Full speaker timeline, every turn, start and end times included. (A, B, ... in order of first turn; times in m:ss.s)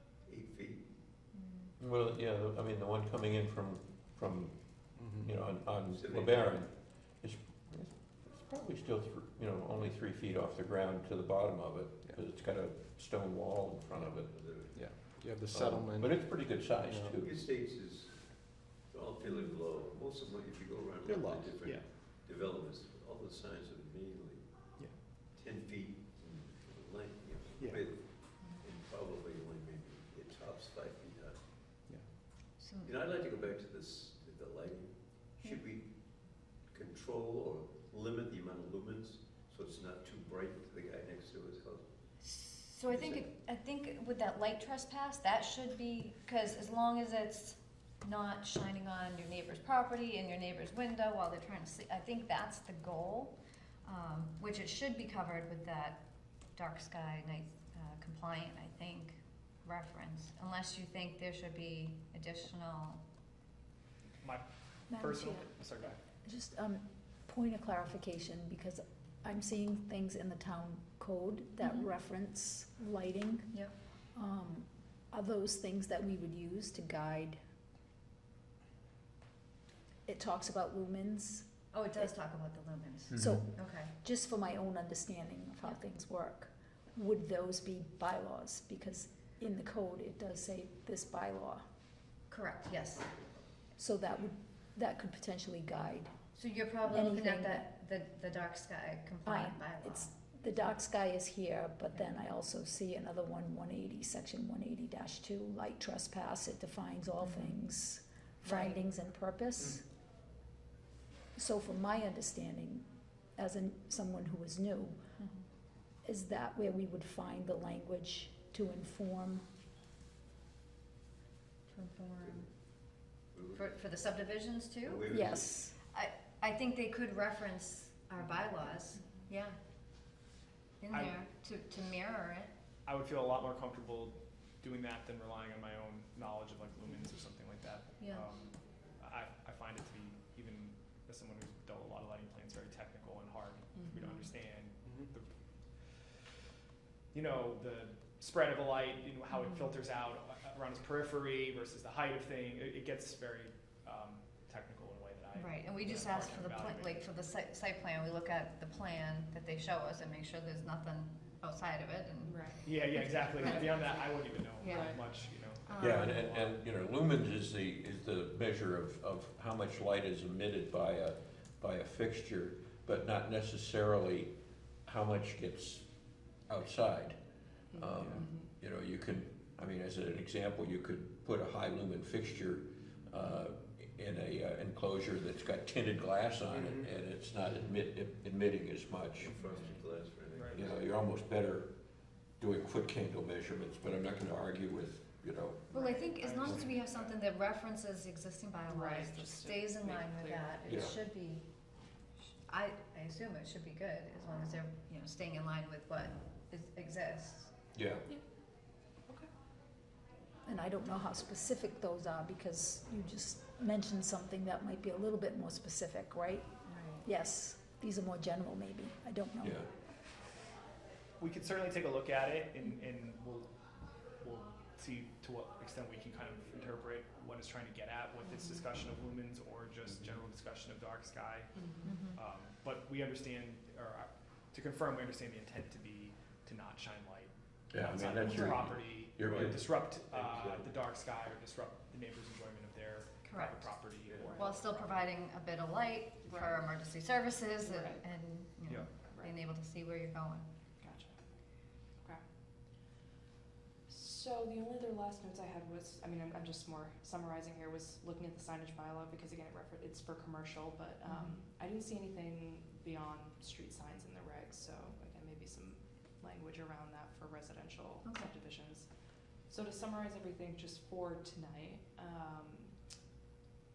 0:00.2-0:00.9 A
0:01.3-0:01.7 B
0:01.8-0:14.6 C
0:05.0-0:05.3 D
0:05.9-0:06.6 A
0:14.2-0:14.8 A
0:14.7-0:17.2 D
0:15.5-0:17.4 C
0:17.2-0:24.4 A
0:19.3-0:19.6 B
0:21.1-0:21.6 D
0:21.6-0:21.9 E
0:25.3-0:31.4 A
0:27.6-0:27.9 E
0:28.4-0:28.6 B
0:32.6-0:32.9 B
0:32.8-0:42.0 A
0:42.2-0:56.0 B
0:42.9-0:43.3 A
0:56.6-1:03.0 B
1:04.2-1:06.0 E
1:04.9-1:05.6 F
1:06.2-1:13.6 F
1:11.6-1:11.9 B
1:14.2-1:17.4 F
1:20.1-1:22.1 F
1:21.7-1:23.9 B
1:23.1-1:23.5 C
1:23.1-1:31.6 F
1:32.3-1:33.1 B
1:33.8-1:36.1 F
1:36.4-1:40.1 B
1:36.9-1:37.7 F
1:39.2-1:49.8 F
1:41.9-1:42.2 B
1:47.2-1:47.6 B
1:48.4-1:48.8 B
1:51.4-1:55.0 F
1:55.2-1:55.4 B
1:56.0-1:59.4 F
2:01.7-2:02.5 B
2:03.3-2:03.7 A
2:03.5-2:05.0 B
2:04.8-2:05.7 A
2:05.1-2:05.8 F
2:05.9-2:09.6 B
2:10.8-2:12.5 B
2:10.9-2:11.2 E
2:12.9-2:25.3 E
2:18.0-2:18.2 B
2:23.8-2:24.2 G
2:27.1-2:37.0 E
2:29.3-2:29.7 B
2:35.3-2:43.7 B
2:42.2-2:42.6 G
2:42.6-2:46.5 E
2:44.6-2:45.0 G
2:44.6-2:45.0 B
2:45.7-2:46.2 B
2:45.8-2:57.2 C
2:57.7-2:58.5 G
2:57.7-3:09.4 C
3:06.5-3:06.9 D
3:09.2-3:10.9 A
3:10.3-3:10.7 E
3:10.5-3:11.7 C
3:12.3-3:15.8 C
3:15.7-3:21.5 B
3:15.8-3:16.1 G
3:16.1-3:17.3 E
3:18.7-3:20.8 G
3:20.7-3:21.0 C
3:22.5-3:27.6 B
3:27.7-3:28.1 C
3:30.5-3:36.5 F
3:36.7-3:37.1 B
3:37.0-3:39.7 F
3:39.4-3:39.7 C
3:41.2-3:43.5 E
3:44.2-4:04.9 E
3:48.3-3:48.6 G
3:48.3-3:48.6 B
3:51.6-3:52.0 G
3:51.8-3:52.2 B
3:57.7-3:59.7 C
3:59.3-3:59.6 A
4:00.1-4:00.8 A
4:03.2-4:03.8 B
4:04.4-4:10.5 B
4:06.3-4:06.7 G
4:07.6-4:08.0 G
4:08.7-4:09.0 E
4:09.0-4:09.4 G
4:10.8-4:11.2 G
4:13.9-4:28.9 G
4:21.0-4:21.4 B
4:28.0-4:28.3 B
4:29.5-4:32.8 G